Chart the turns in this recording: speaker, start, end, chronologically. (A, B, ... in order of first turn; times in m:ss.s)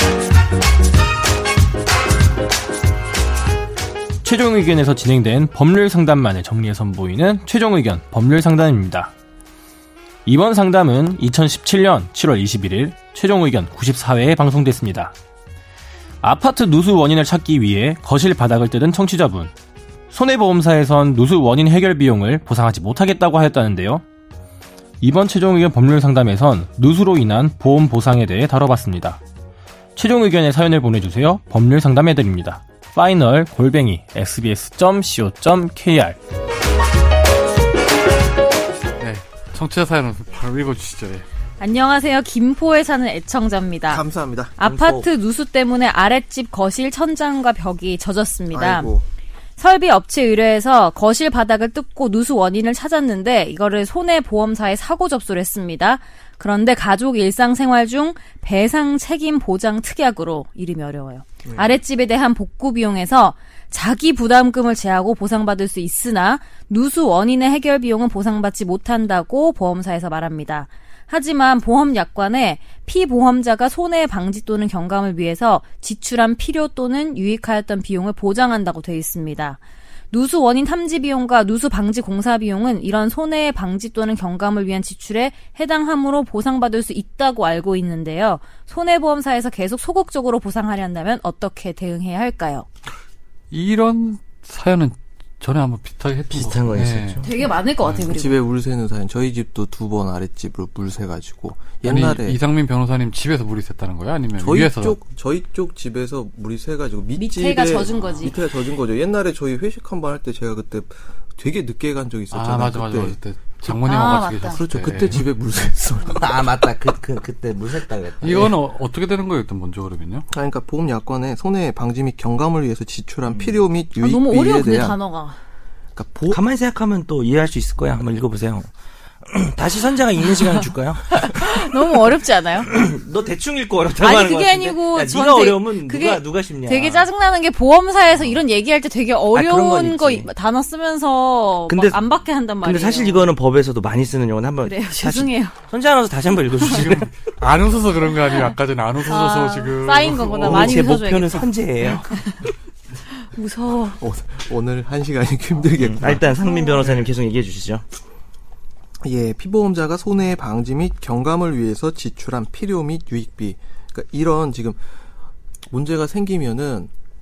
0:04.2-0:09.1 A
0:10.2-0:15.1 A
0:16.2-0:19.5 A
0:20.1-0:24.0 A
0:25.0-0:29.2 A
0:30.0-0:36.2 A
0:39.0-0:41.2 B
0:41.6-0:44.0 C
0:43.9-0:44.6 D
0:44.6-0:48.9 C
0:44.6-0:45.1 E
0:48.5-0:49.1 D
0:49.6-1:32.7 C
1:33.5-1:37.3 B
1:36.3-1:37.3 E
1:37.2-1:38.4 C
1:37.8-1:38.1 B
1:38.1-1:42.4 D
1:41.8-1:45.0 B
1:44.4-1:53.2 D
1:47.1-1:48.4 C
1:52.3-1:55.2 B
1:53.8-1:54.6 C
1:54.4-1:56.4 D
1:56.2-1:58.6 E
1:58.2-2:00.2 B
2:00.3-2:05.0 D
2:03.2-2:03.7 E
2:04.0-2:05.4 C
2:05.9-2:06.4 D
2:06.3-2:08.7 E
2:09.2-2:11.8 E
2:10.4-2:12.7 C
2:12.6-2:17.1 E
2:14.0-2:23.3 C
2:19.3-2:20.3 E
2:21.7-2:22.0 E
2:22.6-2:27.1 E
2:24.6-2:25.5 C
2:26.6-2:30.8 B
2:29.0-2:32.5 C
2:30.4-2:32.1 E
2:33.1-2:34.0 C
2:33.9-2:36.3 D
2:35.8-2:37.8 E
2:36.5-2:36.7 C
2:39.0-2:44.8 D
2:45.7-2:46.9 D